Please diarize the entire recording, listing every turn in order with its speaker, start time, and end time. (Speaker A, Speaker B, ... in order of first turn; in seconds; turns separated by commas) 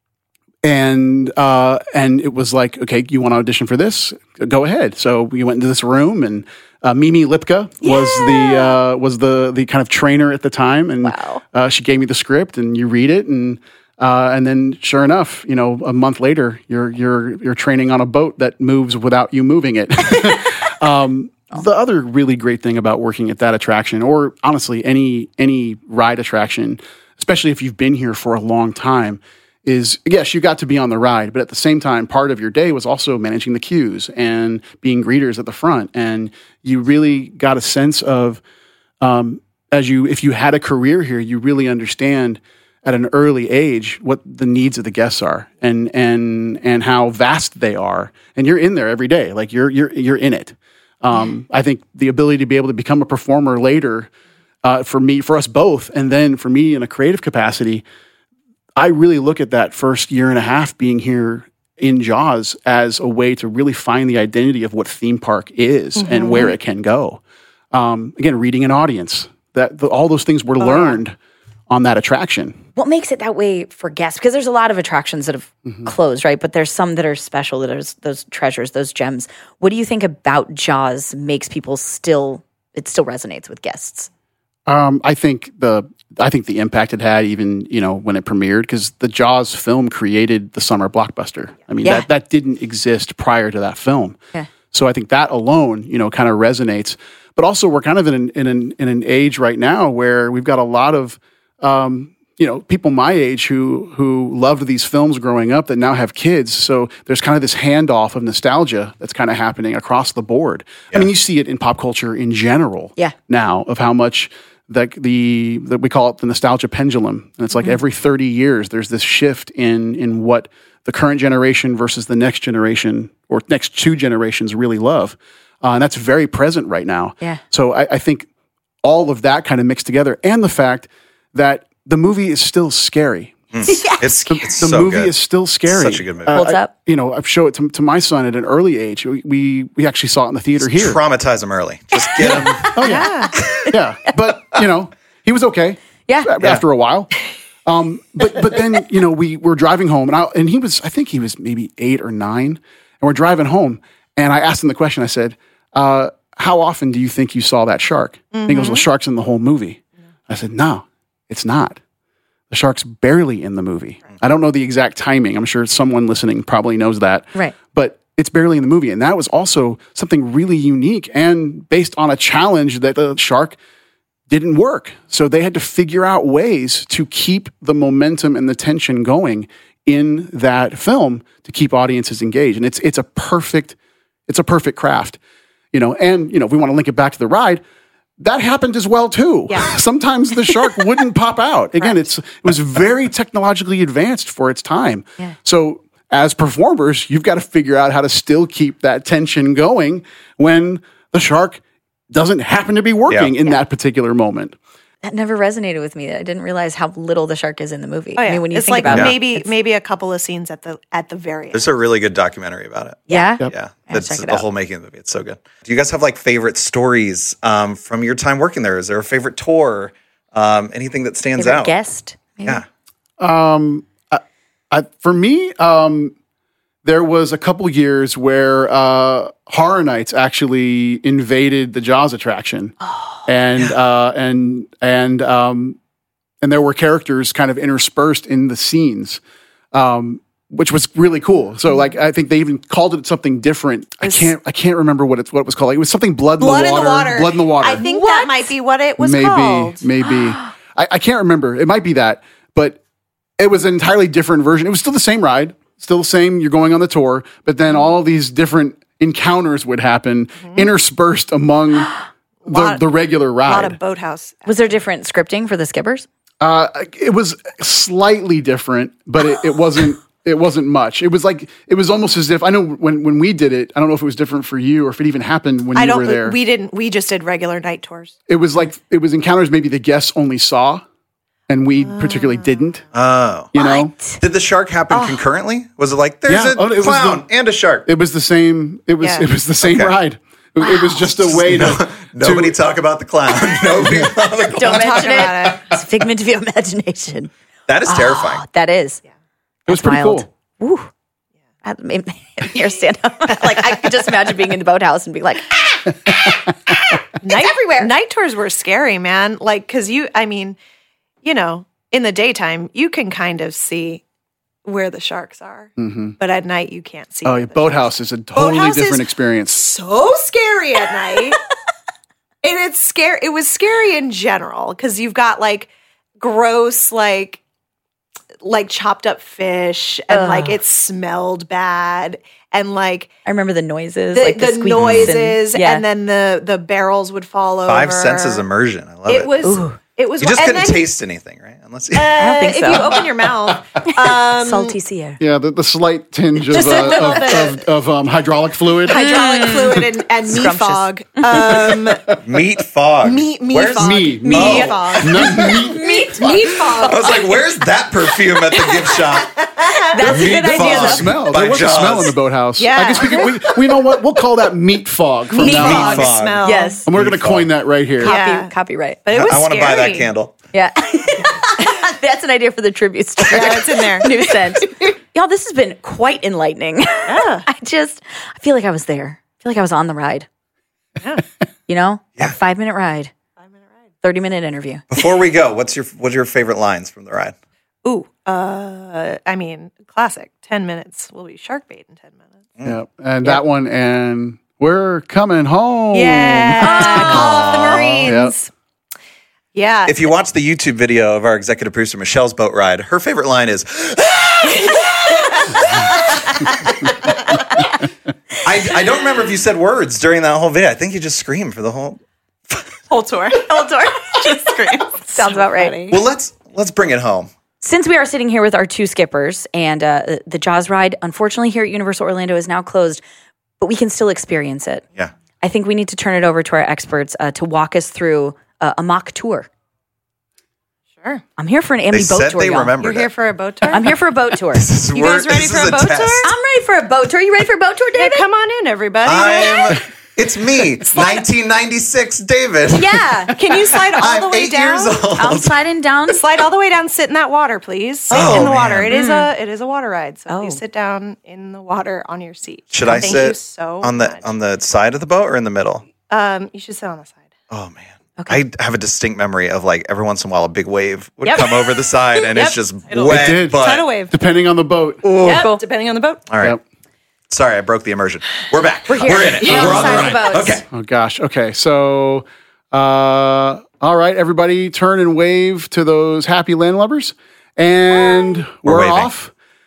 Speaker A: 0.6-38.4, Speaker B: 7.8-8.8, Speaker B: 11.0-11.4, Speaker A: 39.0-54.1, Speaker A: 54.6-57.8, Speaker A: 58.8-67.2, Speaker C: 66.0-66.5, Speaker A: 67.7-71.2, Speaker C: 70.6-71.0, Speaker A: 71.7-72.6, Speaker B: 72.8-84.1, Speaker A: 84.7-94.2, Speaker A: 94.7-128.3, Speaker A: 128.8-133.5, Speaker D: 133.5-135.1, Speaker B: 133.7-134.0, Speaker A: 134.3-141.0, Speaker D: 135.7-136.4, Speaker B: 136.3-136.7, Speaker D: 140.6-142.8, Speaker B: 142.1-143.7, Speaker A: 142.2-147.1, Speaker C: 142.8-143.3, Speaker A: 147.7-161.8, Speaker C: 158.3-158.8, Speaker A: 162.5-173.6, Speaker A: 174.3-183.8, Speaker A: 184.3-185.2, Speaker A: 185.7-187.6, Speaker A: 188.2-204.6, Speaker B: 205.0-209.5, Speaker C: 208.2-211.7, Speaker D: 208.9-209.1, Speaker D: 211.5-221.7, Speaker B: 213.1-214.4, Speaker B: 221.4-222.6, Speaker A: 223.2-226.1, Speaker A: 226.8-235.8, Speaker A: 236.4-239.2, Speaker A: 239.7-247.9, Speaker C: 246.4-249.8, Speaker B: 247.8-248.3, Speaker A: 249.0-252.8, Speaker A: 253.4-261.9, Speaker C: 260.4-260.7, Speaker A: 262.4-263.8, Speaker C: 262.5-262.8, Speaker C: 263.4-264.8, Speaker B: 264.5-266.1, Speaker A: 266.4-276.4, Speaker C: 275.8-278.1, Speaker A: 278.3-280.8, Speaker A: 281.5-282.8, Speaker C: 281.9-282.6, Speaker D: 282.9-283.5, Speaker A: 283.5-283.9, Speaker B: 283.6-284.2, Speaker D: 284.2-287.9, Speaker B: 284.9-285.2, Speaker A: 286.3-287.3, Speaker A: 287.9-292.6, Speaker C: 289.0-289.3, Speaker D: 289.6-289.9, Speaker B: 290.6-291.2, Speaker D: 291.3-295.6, Speaker B: 294.6-297.3, Speaker C: 294.6-295.7, Speaker D: 297.7-298.4, Speaker B: 297.9-299.0, Speaker B: 299.7-300.9, Speaker A: 299.7-300.3, Speaker B: 301.6-306.3, Speaker C: 307.2-310.6, Speaker B: 307.2-307.9, Speaker C: 311.2-314.0, Speaker C: 314.6-321.4, Speaker A: 315.8-316.2, Speaker A: 317.2-319.6, Speaker C: 322.4-325.7, Speaker C: 326.2-327.4, Speaker C: 328.4-333.1, Speaker B: 330.1-330.6, Speaker B: 333.3-335.8, Speaker C: 334.1-338.4, Speaker D: 334.8-335.1, Speaker D: 337.7-339.3, Speaker C: 339.1-340.9, Speaker B: 339.4-339.8, Speaker D: 340.2-343.0, Speaker C: 341.9-344.8, Speaker B: 342.2-343.0, Speaker B: 343.9-345.2, Speaker A: 345.2-349.0, Speaker B: 346.5-347.5, Speaker C: 346.5-347.6, Speaker C: 348.9-352.1, Speaker B: 348.9-351.7, Speaker D: 352.2-354.8, Speaker C: 353.0-357.3, Speaker A: 353.8-355.8, Speaker B: 354.4-357.2, Speaker D: 356.7-362.2, Speaker C: 358.5-360.9, Speaker B: 359.9-361.2, Speaker A: 360.6-366.1, Speaker C: 362.6-363.6, Speaker C: 365.3-366.8, Speaker D: 365.4-367.5, Speaker B: 365.5-366.9, Speaker A: 366.9-368.1, Speaker B: 368.0-369.0, Speaker C: 368.0-368.5, Speaker C: 369.1-370.1, Speaker D: 369.1-370.4, Speaker B: 370.5-380.3, Speaker C: 373.3-374.2, Speaker C: 377.1-377.5, Speaker B: 381.7-383.1, Speaker B: 384.0-384.8, Speaker D: 384.9-387.3, Speaker C: 387.9-392.3, Speaker A: 392.6-397.3, Speaker C: 395.9-398.5, Speaker B: 396.6-397.3, Speaker D: 397.0-398.1, Speaker A: 398.0-398.3, Speaker C: 399.5-399.9, Speaker D: 399.9-404.9, Speaker C: 404.4-405.7, Speaker D: 405.6-407.5, Speaker D: 408.4-412.8, Speaker C: 413.3-416.0, Speaker B: 415.1-415.8, Speaker D: 415.9-417.3, Speaker B: 417.6-423.0, Speaker B: 423.6-424.8, Speaker B: 425.4-429.5, Speaker B: 431.4-432.7, Speaker D: 431.9-433.1, Speaker C: 432.8-433.9, Speaker B: 433.7-434.7, Speaker D: 434.5-436.3, Speaker C: 434.9-436.3, Speaker B: 436.2-438.3, Speaker C: 437.9-439.8, Speaker D: 439.1-445.6, Speaker B: 442.7-443.4, Speaker C: 443.4-445.0, Speaker B: 445.2-446.2, Speaker C: 446.1-454.3, Speaker D: 448.1-449.0, Speaker B: 448.1-449.3, Speaker B: 450.3-450.6, Speaker D: 452.7-455.9, Speaker B: 452.8-453.3, Speaker C: 456.1-457.2, Speaker D: 457.5-463.9, Speaker C: 461.2-464.1, Speaker A: 463.1-465.0, Speaker D: 465.0-465.5, Speaker C: 465.2-466.2, Speaker B: 465.3-465.6, Speaker D: 466.3-466.6, Speaker D: 467.3-470.7, Speaker B: 468.9-470.6, Speaker C: 469.4-470.2, Speaker A: 470.7-479.3, Speaker D: 478.6-479.1